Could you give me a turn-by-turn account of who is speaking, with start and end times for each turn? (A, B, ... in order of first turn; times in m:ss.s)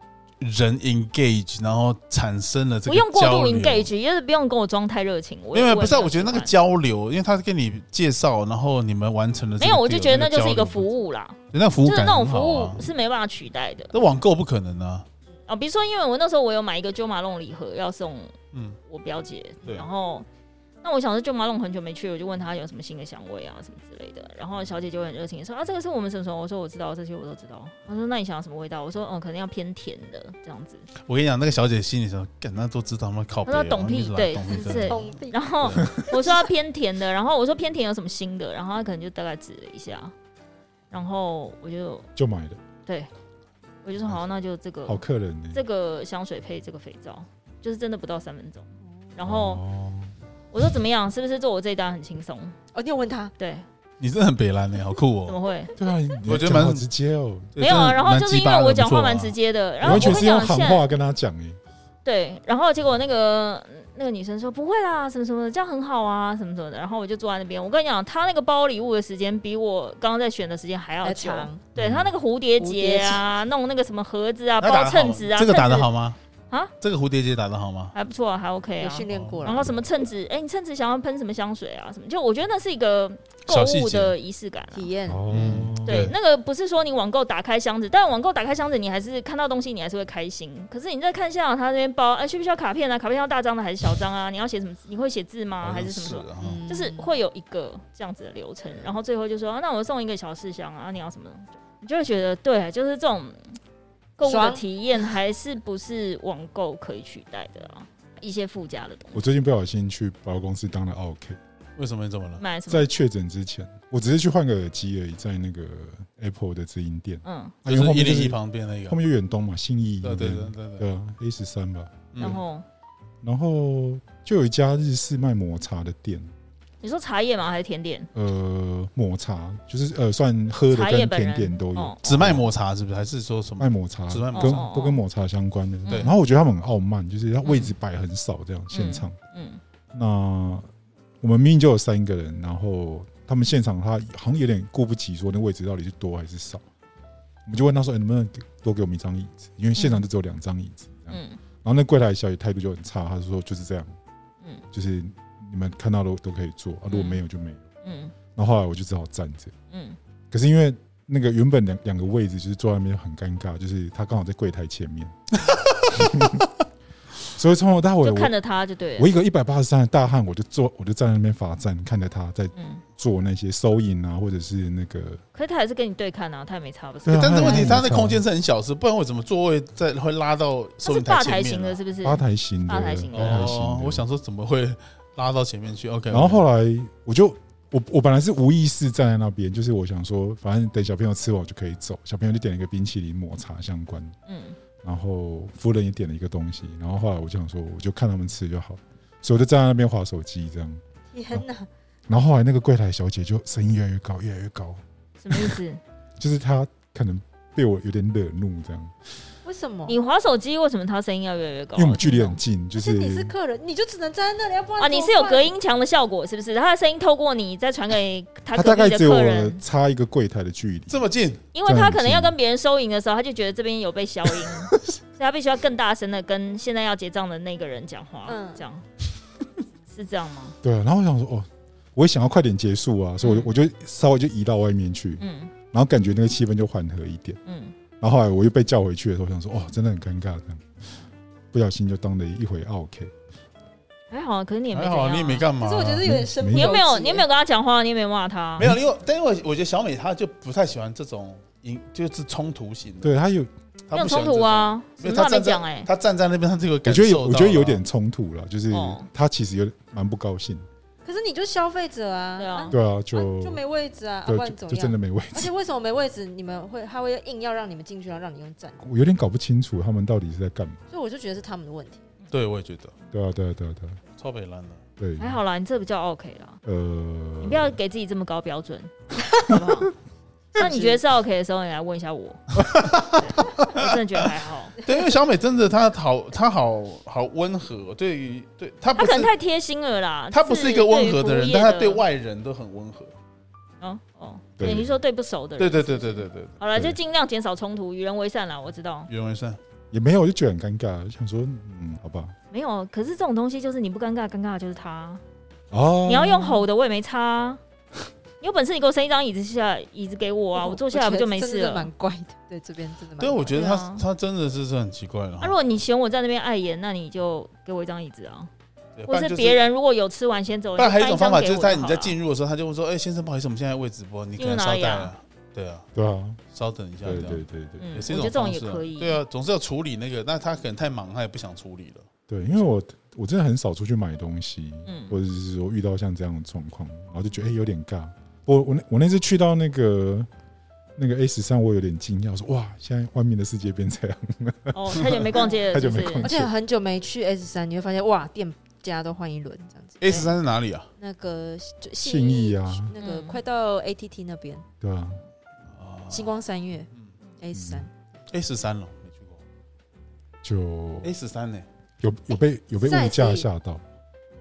0:00.4-0:03.9 A
0:02.9-0:06.5 B
0:05.5-0:10.9 A
0:09.6-0:14.0 B
0:11.5-0:12.8 A
0:13.9-0:15.1 A
0:15.5-0:18.4 B
0:18.5-0:18.8 A
0:18.9-0:20.3 B
0:20.8-0:30.9 B
0:31.0-0:35.8 A
0:33.5-0:40.1 B
0:34.5-0:35.4 C
0:40.9-0:42.1 B
0:42.2-0:42.6 D
0:43.8-0:45.0 B
0:44.9-0:45.6 D
0:45.5-0:49.6 B
0:48.9-0:49.1 C
0:49.2-0:50.1 D
0:50.5-0:52.6 B
0:52.7-0:53.3 C
0:53.4-0:53.6 B
0:54.0-0:55.4 A
0:55.3-0:55.7 B
0:55.8-0:57.5 D
0:56.2-0:56.9 A
0:57.5-1:00.2 A
0:57.6-1:00.9 B
0:59.8-1:01.6 D
1:02.0-1:15.9 B
1:11.0-1:11.7 C
1:11.8-1:12.0 A
1:11.8-1:12.1 D
1:12.6-1:13.3 C
1:14.6-1:16.2 A
1:16.8-1:17.9 A
1:17.9-1:24.9 B
1:18.8-1:19.8 C
1:19.1-1:19.6 A
1:23.5-1:24.1 A
1:24.7-1:25.3 C
1:25.1-1:26.1 D
1:25.3-1:26.2 A
1:25.8-1:43.6 B
1:35.6-1:36.6 A
1:36.4-1:37.1 C
1:44.2-1:49.2 B
1:44.2-1:44.6 C
1:49.1-1:51.4 D
1:51.8-1:52.4 A
1:52.4-1:52.9 B
1:52.7-2:02.4 D
1:57.2-1:57.6 B
1:57.6-1:59.0 A
2:00.0-2:00.8 A
2:02.1-2:02.4 A
2:02.2-2:02.6 B
2:03.2-2:06.3 D
2:06.8-2:08.1 B
2:08.1-2:12.5 D
2:10.7-2:12.4 B
2:12.0-2:14.7 A
2:13.6-2:19.2 D
2:14.3-2:15.0 B
2:17.4-2:17.7 B
2:18.7-2:19.6 B
2:19.9-2:20.7 D
2:21.2-2:26.6 D
2:27.5-2:34.0 D
2:29.8-2:30.0 B
2:31.1-2:31.4 B
2:34.7-2:37.7 D
2:36.9-2:37.2 B
2:37.8-2:38.2 B
2:38.4-2:39.5 D
2:39.7-2:40.0 B
2:40.3-2:45.2 D
2:45.5-2:45.9 A
2:45.9-2:46.5 D
2:47.3-2:48.3 D
2:48.0-2:49.1 B
2:49.0-2:55.2 D
2:52.6-2:52.8 B
2:55.3-2:57.8 B
2:57.0-2:58.2 D
2:57.1-3:01.8 A
3:00.8-3:03.5 B
3:02.0-3:04.0 D
3:03.1-3:06.4 A
3:06.1-3:14.2 D
3:14.3-3:14.6 B
3:14.8-3:20.8 D
3:21.1-3:21.7 C
3:22.1-3:25.6 D
3:25.2-3:25.8 B
3:26.2-3:29.0 D
3:29.4-3:30.0 C
3:29.9-3:32.4 B
3:31.8-3:33.3 D
3:32.8-3:35.5 C
3:34.8-3:39.6 B
3:38.5-3:41.0 D
3:40.9-3:41.4 A
3:41.5-3:48.8 B
3:41.6-3:42.4 D
3:48.3-3:48.6 C
3:49.9-3:50.6 B
3:50.6-3:57.4 D
3:53.2-3:53.5 B
3:55.2-3:55.5 B
3:57.5-3:57.8 B
3:58.0-4:00.7 D
4:01.5-4:03.1 D
4:04.1-4:05.5 B
4:04.7-4:06.1 A
4:05.6-4:07.3 C
4:06.0-4:06.8 D
4:06.5-4:08.7 B
4:08.6-4:13.1 A
4:13.0-4:13.5 D
4:13.9-4:17.8 A
4:13.9-4:15.9 B
4:16.8-4:20.7 D
4:18.7-4:19.1 B
4:21.0-4:28.8 C
4:22.4-4:22.8 B
4:22.7-4:23.6 D
4:24.2-4:25.5 D
4:28.8-4:30.8 D
4:30.9-4:32.0 C
4:32.3-4:32.9 A
4:33.1-4:34.0 D
4:34.2-4:34.8 A
4:35.0-4:35.4 D
4:35.2-4:36.6 B
4:36.6-4:37.8 D
4:37.4-4:39.9 B
4:40.6-4:41.0 C
4:40.6-4:42.5 B
4:42.6-4:44.2 A
4:43.1-4:44.8 B
4:44.8-4:49.3 A
4:49.0-4:52.0 B
4:50.3-4:53.1 A
4:53.8-4:59.1 B
4:54.6-4:55.0 D
4:55.6-4:56.6 A
4:59.1-4:59.6 A
4:59.9-5:02.4 D
5:02.5-5:05.2 B
5:05.7-5:06.6 D
5:06.1-5:07.6 B
5:08.4-5:11.9 B
5:10.6-5:13.6 C
5:13.2-5:15.6 A
5:13.5-5:14.0 B
5:15.4-5:18.5 B
5:19.0-5:19.6 A
5:19.1-5:22.2 B
5:20.8-5:25.9 A
5:24.4-5:25.1 B
5:26.0-5:26.4 D
5:26.5-5:32.1 A
5:27.0-5:27.9 D
5:27.8-5:29.2 B
5:32.3-5:40.3 D
5:34.9-5:35.2 B
5:41.0-5:46.5 D
5:44.7-5:46.3 B
5:45.4-5:45.6 C
5:46.2-5:50.3 C
5:50.0-5:50.9 A
5:51.0-5:54.7 C
5:52.0-5:52.9 D
5:53.0-5:53.4 B
5:54.8-5:55.2 D
5:55.7-5:57.1 A
5:56.1-5:56.9 C
5:57.4-5:57.9 C
5:57.5-5:57.9 D
5:58.3-5:59.4 A
6:00.4-6:01.1 D
6:01.0-6:01.7 A
6:02.0-6:03.8 D
6:02.8-6:03.5 C